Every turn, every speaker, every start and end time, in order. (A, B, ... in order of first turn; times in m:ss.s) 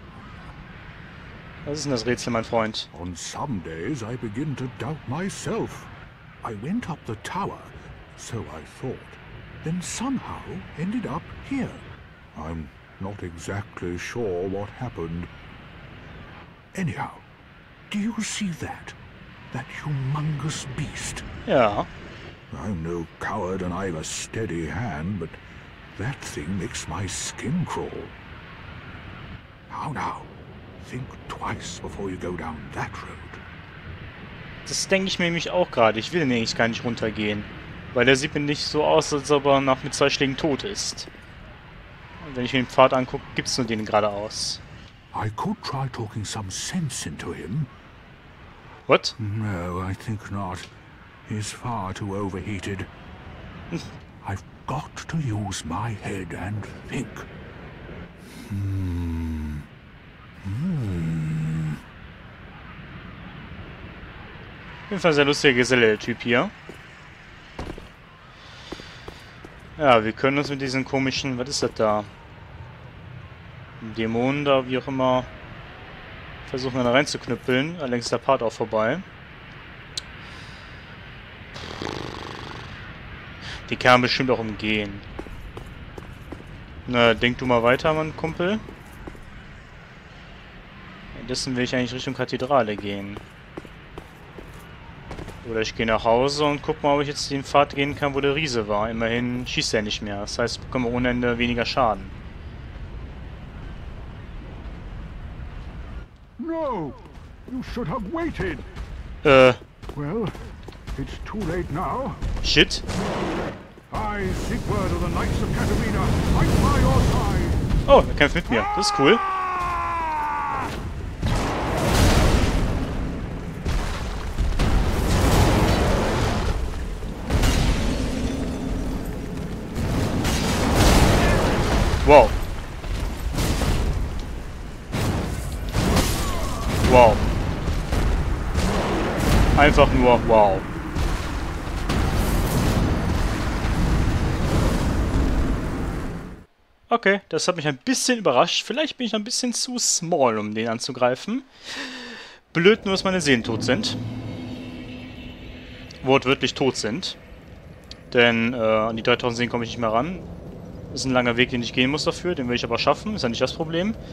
0:01.7-0:02.9 A
0:02.9-0:15.3 B
0:16.7-0:17.3 B
0:17.9-0:19.0 B
0:19.5-0:21.3 B
0:21.5-0:21.9 A
0:22.5-0:25.4 B
0:26.0-0:28.2 B
0:29.7-0:33.4 B
0:34.7-0:41.1 A
0:42.2-0:44.6 A
0:45.1-0:47.7 B
0:48.9-0:49.2 A
0:49.2-0:50.7 B
0:51.3-0:52.9 B
0:54.2-0:57.3 B
0:58.3-0:59.7 B
1:00.4-1:01.8 B
1:04.9-1:06.5 A
1:09.8-1:12.1 A
1:13.8-1:15.3 A
1:16.5-1:19.0 A
1:23.6-1:25.0 A
1:26.9-1:28.6 A
1:31.1-1:33.2 A
1:35.4-1:42.1 A
1:46.4-1:48.7 B
1:49.2-1:49.6 A
1:49.9-1:50.3 B
1:50.9-1:52.3 B
1:52.4-1:52.8 A
1:53.9-1:57.7 B
1:57.9-1:59.2 A
2:12.0-2:12.4 A
2:16.8-2:17.2 A
2:19.6-2:20.7 A
2:26.9-2:34.0 A
2:36.0-2:37.2 A
2:38.1-2:40.3 A
2:40.9-2:44.0 A